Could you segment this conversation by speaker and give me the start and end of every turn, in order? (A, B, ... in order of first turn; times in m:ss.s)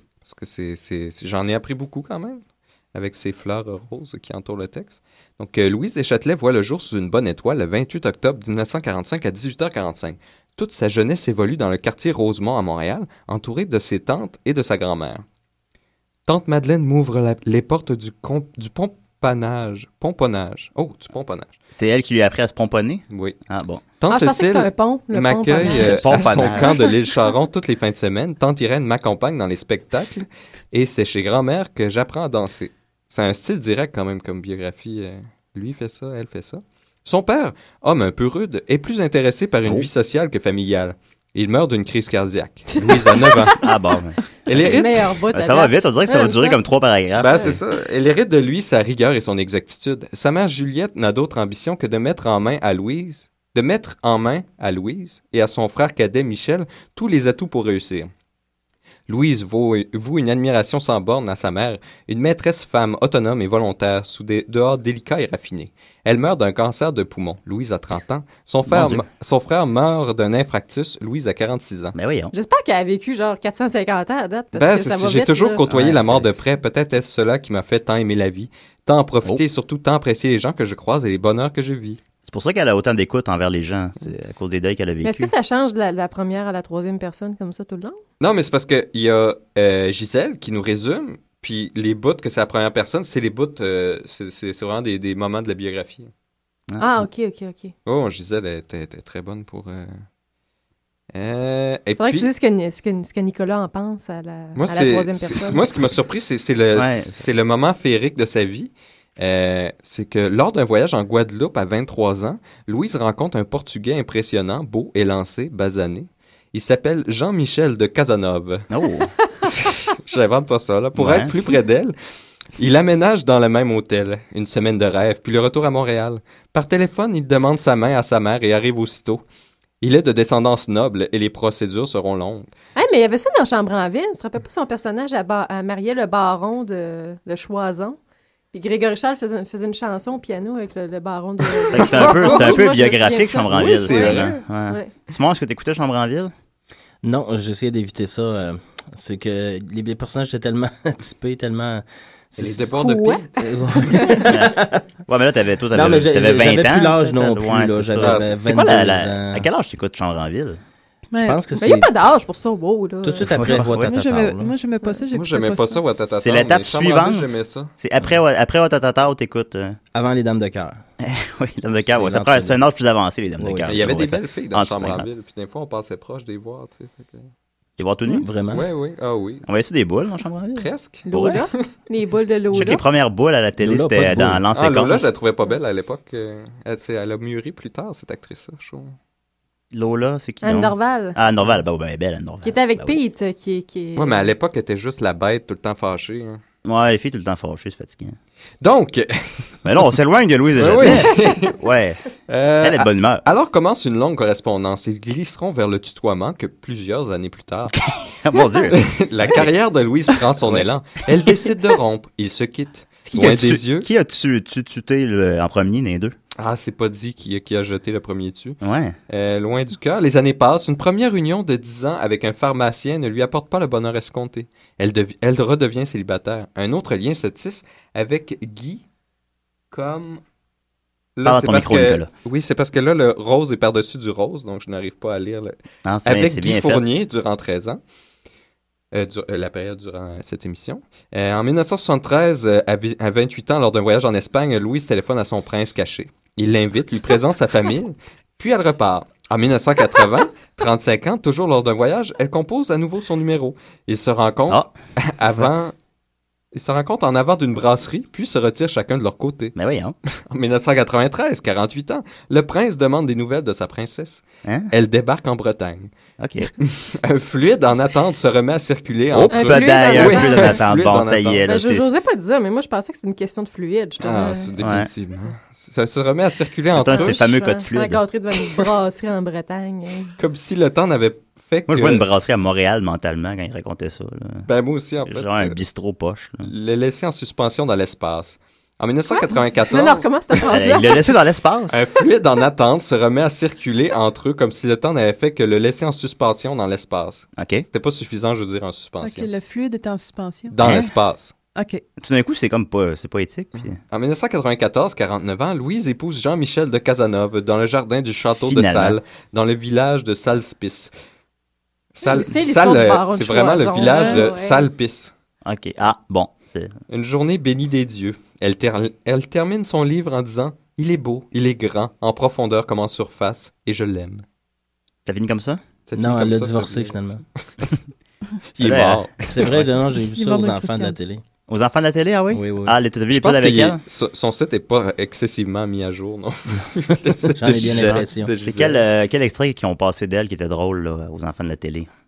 0:00.2-0:02.4 A
0:02.9-0:15.2 A
0:16.3-0:21.6 A
0:21.8-0:23.8 B
0:23.1-0:23.4 A
0:24.0-0:43.6 A
0:24.1-0:26.9 C
0:25.6-0:26.8 B
0:42.9-0:43.6 C
0:43.6-0:44.8 B
0:44.5-0:45.2 A
0:44.5-0:46.6 C
0:45.3-0:47.6 B
0:47.2-0:58.1 A
0:59.1-1:11.9 A
1:08.7-1:09.0 B
1:11.9-1:12.3 B
1:12.3-1:15.7 C
1:14.6-1:22.0 A
1:15.7-1:16.3 B
1:22.2-1:25.3 B
1:25.0-1:28.0 C
1:28.2-1:36.1 A
1:36.7-1:37.1 B
1:36.8-1:37.7 C
1:37.9-1:40.0 A
1:41.1-1:42.3 A
1:42.0-1:45.6 C
1:44.6-1:58.7 A
1:46.8-1:47.2 B
1:58.7-1:59.1 B
1:59.5-2:02.0 A
2:01.0-2:01.3 B
2:02.6-2:09.2 A
2:09.8-2:12.5 A
2:12.8-2:18.0 C
2:18.5-2:24.9 C
2:21.7-2:26.3 B
2:21.8-2:22.6 A
2:23.5-2:24.4 A
2:27.0-2:32.7 D
2:32.4-2:33.4 A
2:32.7-2:33.2 C
2:33.4-2:34.8 D
2:34.3-2:40.6 B
2:35.7-2:39.5 D
2:38.0-2:38.4 A
2:41.1-2:41.4 E
2:41.2-2:41.9 D
2:41.6-2:43.4 C
2:43.0-2:44.5 D
2:43.3-2:43.9 B
2:43.7-2:45.9 E
2:45.1-2:47.7 A
2:46.2-2:49.8 B
2:49.9-2:50.8 D
2:51.0-2:55.1 B
2:51.9-2:52.6 D
2:53.4-2:53.9 D
2:53.7-2:57.3 A
2:57.8-2:58.3 B
2:58.1-2:58.6 D
2:58.5-2:59.4 A
2:59.4-3:01.5 B
3:00.6-3:01.1 A
3:01.1-3:02.8 C
3:02.5-3:05.1 B
3:03.6-3:04.4 D
3:04.6-3:09.0 A
3:09.7-3:13.0 B
3:10.4-3:11.2 C
3:12.4-3:14.3 C
3:14.0-3:16.4 A
3:16.6-3:18.2 B
3:18.6-3:19.4 A
3:19.6-3:22.0 B
3:20.6-3:21.6 A
3:22.3-3:27.8 A
3:22.6-3:23.2 B
3:27.8-3:29.5 B
3:28.7-3:33.9 A
3:33.1-3:36.2 B
3:36.4-3:48.8 A
3:38.6-3:39.0 B
3:49.7-3:50.2 A
3:51.2-3:57.8 A
3:51.2-3:52.1 B
3:55.8-3:56.8 B
3:58.9-4:15.7 A
4:16.5-4:19.5 A
4:19.6-4:20.0 B
4:20.3-4:25.9 A
4:24.4-4:24.7 B
4:26.2-4:26.5 B
4:26.6-4:31.4 A
4:29.1-4:31.9 B
4:29.3-4:30.6 C
4:31.4-4:34.5 C
4:34.0-4:37.2 A
4:34.6-4:34.9 B
4:36.7-4:38.0 B
4:36.8-4:40.1 C
4:40.2-4:42.0 A
4:41.7-4:44.5 B
4:44.5-4:45.6 A
4:45.1-4:46.5 B
4:46.4-4:50.4 A
4:49.1-4:51.1 C
4:50.5-4:51.8 B
4:51.7-4:59.3 A
4:57.4-4:57.7 B
4:59.0-5:00.6 E
5:00.5-5:01.3 A
5:00.6-5:00.9 B
5:01.6-5:01.8 E
5:02.0-5:03.8 B
5:03.9-5:10.9 A
5:08.4-5:09.0 B
5:12.0-5:15.1 A
5:12.0-5:14.7 C
5:15.4-5:16.8 B
5:16.9-5:24.2 A
5:25.0-5:25.6 B
5:25.9-5:27.0 A
5:26.0-5:27.2 D
5:28.6-5:29.2 A
5:28.6-5:29.6 B
5:29.3-5:31.2 D
5:29.9-5:31.0 E
5:31.5-5:33.8 B
5:32.3-5:32.8 D
5:33.1-5:38.8 A
5:37.3-5:38.3 D
5:37.5-5:41.9 B